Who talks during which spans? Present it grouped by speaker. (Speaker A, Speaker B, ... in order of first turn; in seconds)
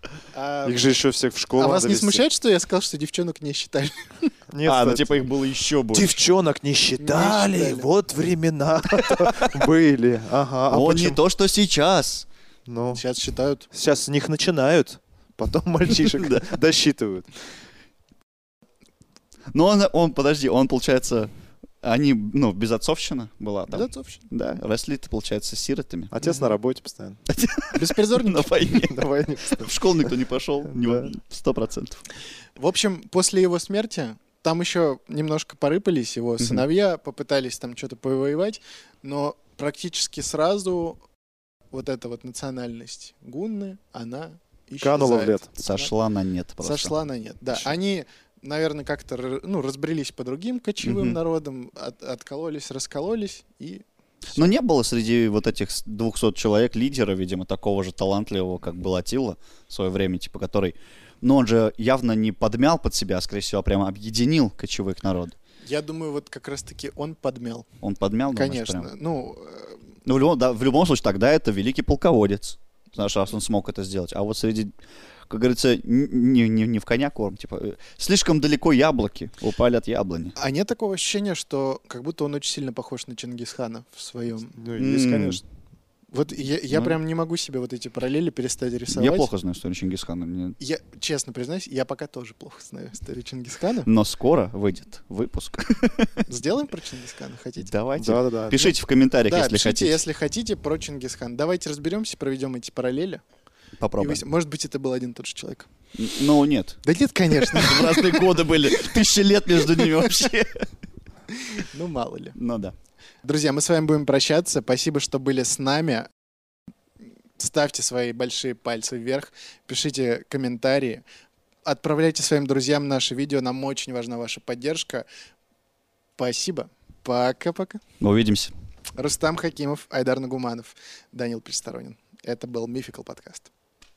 Speaker A: 0.3-1.0, 1.6-4.3, 7.0-7.9, 12.9-13.7, 23.7-24.3, 27.7-28.6, 32.6-41.0, 41.7-45.9, 46.6-54.5, 65.7-67.7, 68.3-69.8, 80.4-84.6, 86.1-89.3, 90.6-93.9, 96.3-97.7, 98.5-103.2, 104.0-105.7, 106.8-109.0, 109.8-110.1, 111.4-112.4, 113.2-116.1, 117.4-121.0, 121.6-125.0, 126.2-127.8, 129.0-133.5
Speaker B: 0.6-2.2, 4.5-5.2, 5.9-11.2, 12.7-13.0, 13.7-17.3, 26.1-27.2, 28.8-30.1, 30.7-31.2, 44.8-45.5, 84.5-85.4, 98.0-98.6
Speaker C: 4.6-6.2, 9.0-9.6, 10.7-12.3, 16.1-16.4, 19.5-21.3, 21.8-26.1, 27.3-32.0, 45.6-46.9, 50.8-51.2, 54.3-65.3, 67.8-68.9, 70.0-74.7, 75.3-80.3, 84.8-85.4, 88.9-90.6, 93.8-96.3, 97.6-100.0, 103.8-104.2, 106.0-106.8, 107.4-110.7, 112.4-112.7, 128.0-128.5